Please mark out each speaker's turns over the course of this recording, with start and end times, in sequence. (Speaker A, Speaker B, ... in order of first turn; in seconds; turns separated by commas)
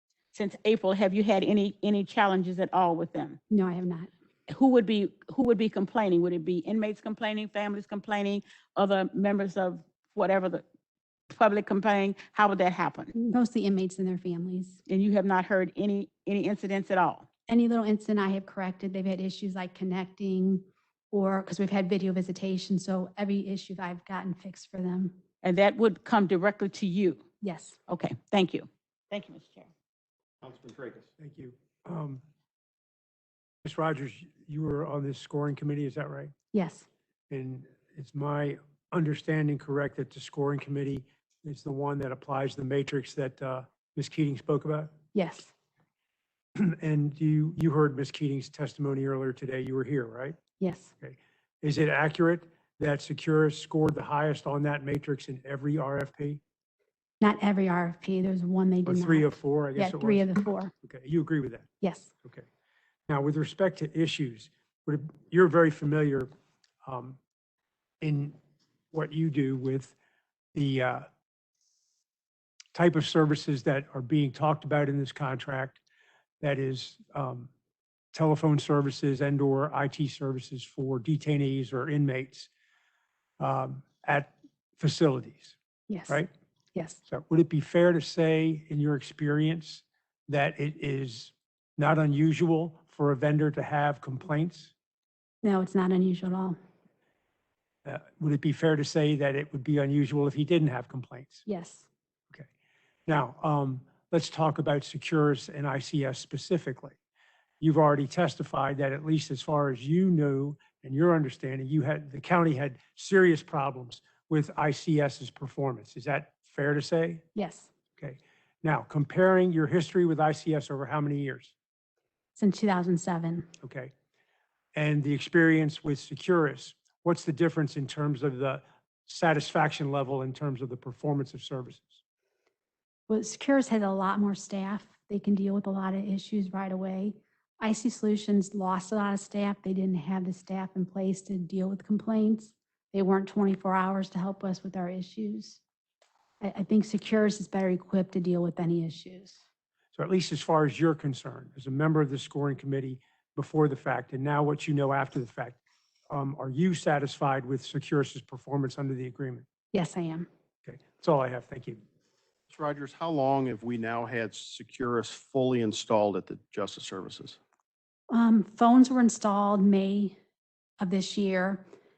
Speaker A: 0.3-3.4, Speaker B: 3.5-4.1, Speaker A: 4.5-10.6, Speaker A: 11.3-13.1, Speaker B: 13.1-14.8, Speaker A: 14.9-17.2, Speaker B: 17.5-25.2, Speaker A: 25.4-27.2, Speaker B: 27.4-27.8, Speaker A: 27.9-29.7, Speaker C: 30.4-31.1, Speaker D: 31.2-32.2, Speaker D: 33.6-36.3, Speaker B: 36.5-36.9, Speaker D: 37.3-44.9, Speaker B: 45.1-45.5, Speaker D: 46.5-50.4, Speaker B: 50.6-50.9, Speaker D: 51.0-56.4, Speaker B: 57.2-60.7, Speaker D: 58.9-60.2, Speaker D: 60.8-61.7, Speaker B: 61.8-62.1, Speaker D: 63.1-66.3, Speaker D: 66.8-67.2, Speaker D: 68.0-68.4, Speaker D: 68.9-69.9, Speaker D: 70.5-71.1, Speaker D: 72.7-75.8, Speaker D: 76.4-77.5, Speaker D: 78.1-82.5, Speaker D: 83.4-85.5, Speaker B: 85.9-86.2, Speaker B: 86.7-87.0, Speaker D: 87.1-94.7, Speaker B: 95.4-96.6, Speaker D: 97.8-101.4, Speaker B: 101.5-101.8, Speaker D: 103.1-107.0, Speaker D: 107.6-117.2, Speaker B: 117.3-117.7, Speaker D: 118.0-121.5, Speaker B: 122.3-123.5, Speaker D: 123.6-123.9, Speaker D: 124.8-132.0, Speaker B: 133.1-145.6, Speaker B: 146.4-149.4, Speaker D: 149.9-155.6, Speaker D: 156.1-159.4, Speaker B: 159.7-160.3, Speaker D: 160.6-161.8, Speaker C: 162.5-167.4, Speaker B: 168.1-170.2, Speaker B: 170.8-171.6